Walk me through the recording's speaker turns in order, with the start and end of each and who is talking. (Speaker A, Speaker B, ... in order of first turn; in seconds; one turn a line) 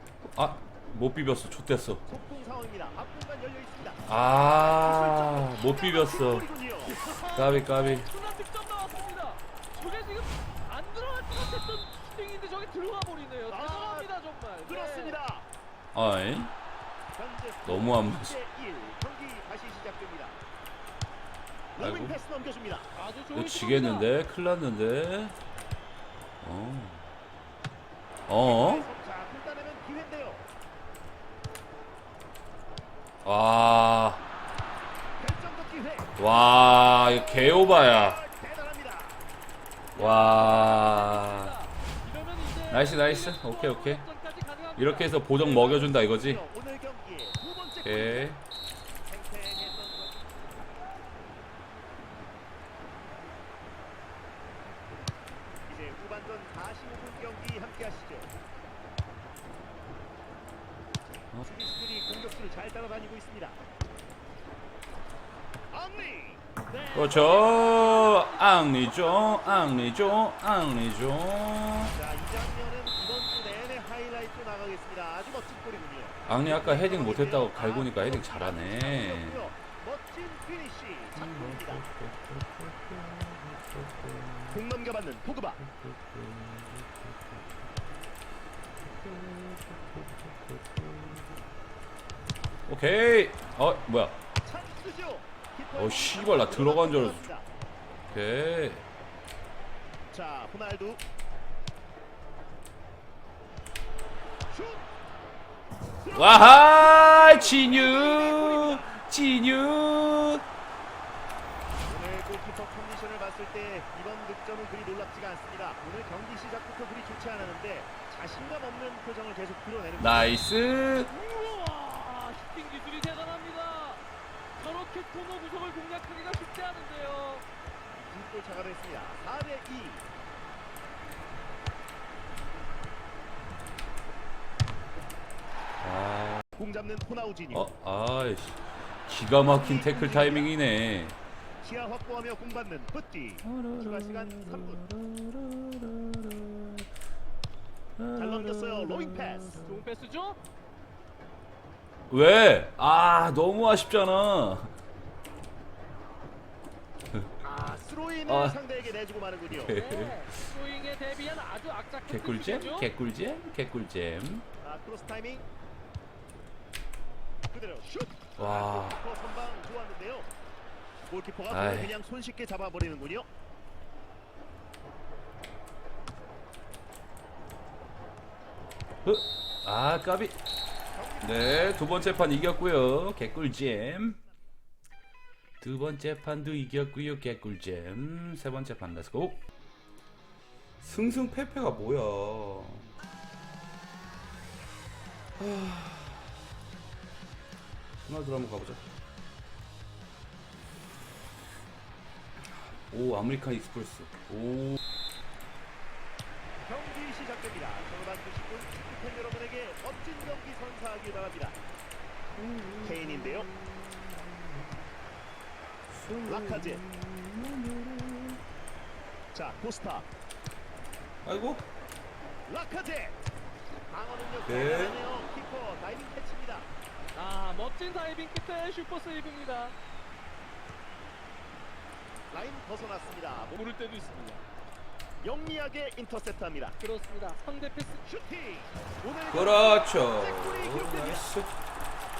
Speaker A: 0.2-2.0
Speaker B: 2.0-7.0
Speaker A: 4.1-6.5
Speaker C: 6.8-15.2
Speaker A: 7.3-8.1
Speaker B: 13.5-14.1
Speaker B: 14.6-15.4
Speaker A: 15.9-16.5
Speaker B: 17.1-20.4
Speaker A: 17.6-18.4
Speaker B: 21.7-22.9
Speaker A: 21.8-22.2
Speaker C: 22.9-24.1
Speaker A: 23.3-25.4
Speaker A: 26.4-27.1
Speaker A: 28.3-28.9
Speaker B: 28.4-30.4
Speaker A: 33.2-34.2
Speaker B: 35.2-36.2
Speaker A: 36.2-38.2
Speaker B: 36.8-39.2
Speaker A: 40.0-41.5
Speaker C: 40.0-45.2
Speaker A: 42.7-44.0
Speaker A: 44.8-46.4
Speaker B: 45.3-48.3
Speaker A: 47.8-48.4
Speaker B: 49.0-50.2
Speaker B: 55.7-58.3
Speaker B: 61.4-63.6
Speaker B: 65.7-66.4
Speaker C: 66.7-70.2
Speaker A: 66.9-72.0
Speaker B: 69.1-69.8
Speaker B: 71.9-81.8
Speaker A: 76.3-79.5
Speaker A: 81.1-84.6
Speaker B: 84.5-85.6
Speaker A: 85.6-87.6
Speaker A: 88.8-91.4
Speaker A: 92.7-94.2
Speaker B: 94.4-97.5
Speaker A: 95.8-97.3
Speaker A: 98.1-98.8
Speaker B: 100.1-101.0
Speaker B: 104.5-104.8
Speaker B: 106.0-108.9
Speaker A: 106.1-110.4
Speaker B: 111.8-120.4
Speaker A: 120.0-121.1
Speaker C: 121.1-124.0
Speaker C: 124.6-127.4
Speaker B: 128.0-130.0
Speaker A: 135.8-136.4
Speaker B: 136.6-137.7
Speaker A: 137.5-141.2
Speaker B: 139.4-140.5
Speaker B: 141.6-144.8
Speaker A: 143.4-146.9
Speaker A: 148.0-149.8
Speaker B: 148.2-149.6
Speaker C: 149.6-150.4
Speaker A: 152.1-154.7
Speaker B: 157.4-159.8
Speaker A: 158.3-158.6
Speaker A: 159.5-160.5
Speaker C: 159.6-162.9
Speaker A: 162.1-164.4
Speaker B: 164.6-165.5
Speaker B: 167.5-170.3
Speaker A: 168.4-169.0
Speaker B: 171.1-173.3
Speaker A: 171.5-172.0
Speaker A: 179.0-180.4
Speaker B: 180.9-182.1
Speaker A: 181.2-184.2
Speaker A: 185.6-189.4
Speaker A: 190.8-192.9
Speaker A: 195.4-196.3
Speaker A: 198.0-198.9
Speaker A: 202.9-204.8
Speaker B: 206.6-211.6
Speaker A: 212.3-214.8
Speaker B: 212.8-213.5
Speaker A: 215.9-218.4
Speaker B: 216.2-216.8
Speaker B: 219.3-220.1
Speaker A: 221.2-221.7
Speaker B: 222.4-223.2
Speaker B: 223.9-226.7
Speaker A: 224.4-225.0
Speaker C: 227.1-229.7
Speaker B: 232.3-233.6
Speaker C: 233.5-234.4
Speaker B: 235.2-236.8
Speaker C: 236.8-238.0
Speaker B: 238.0-241.3
Speaker A: 239.3-241.5